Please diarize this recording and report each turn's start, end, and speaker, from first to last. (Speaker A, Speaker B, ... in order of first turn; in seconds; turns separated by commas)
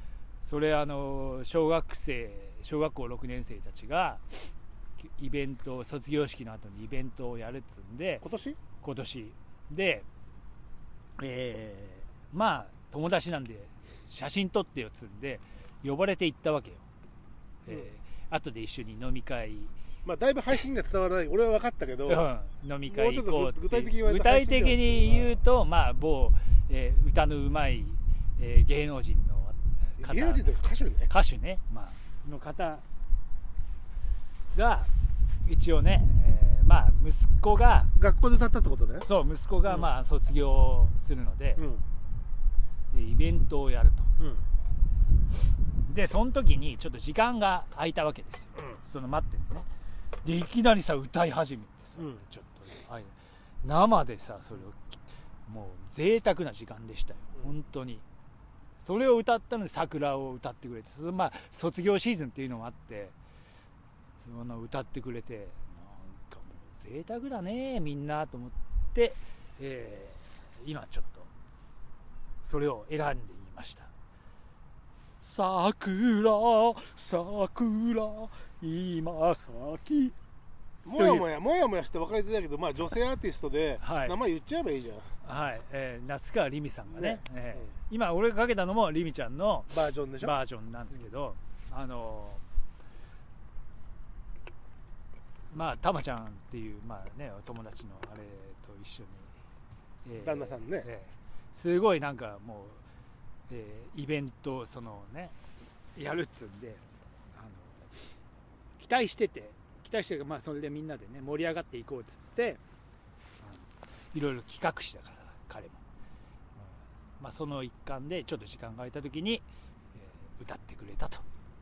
Speaker A: 0.4-4.2, Speaker A: 5.0-8.2, Speaker B: 8.2-8.6, Speaker A: 8.8-10.1, Speaker A: 11.2-16.9, Speaker A: 17.6-19.7, Speaker B: 20.1-22.2, Speaker A: 22.1-32.9, Speaker B: 22.9-25.4, Speaker B: 30.0-31.1, Speaker A: 34.5-34.9, Speaker A: 35.5-37.9, Speaker B: 38.0-39.1, Speaker A: 39.0-41.6, Speaker B: 41.6-41.8, Speaker A: 42.9-44.1, Speaker B: 44.2-44.4, Speaker A: 45.9-49.7, Speaker A: 50.2-58.0, Speaker A: 58.8-63.1, Speaker A: 64.2-71.3, Speaker A: 72.4-73.9, Speaker A: 75.2-80.2, Speaker B: 80.8-85.1, Speaker A: 81.0-81.2, Speaker A: 83.8-84.2, Speaker A: 85.2-92.4, Speaker B: 86.9-87.7, Speaker B: 89.7-90.4, Speaker A: 95.5-99.3, Speaker A: 100.0-102.8, Speaker B: 100.2-100.9, Speaker A: 103.5-105.3, Speaker A: 106.0-106.8, Speaker A: 107.3-107.8, Speaker A: 108.8-112.6, Speaker A: 113.4-115.8, Speaker A: 116.6-119.4, Speaker A: 120.0-121.2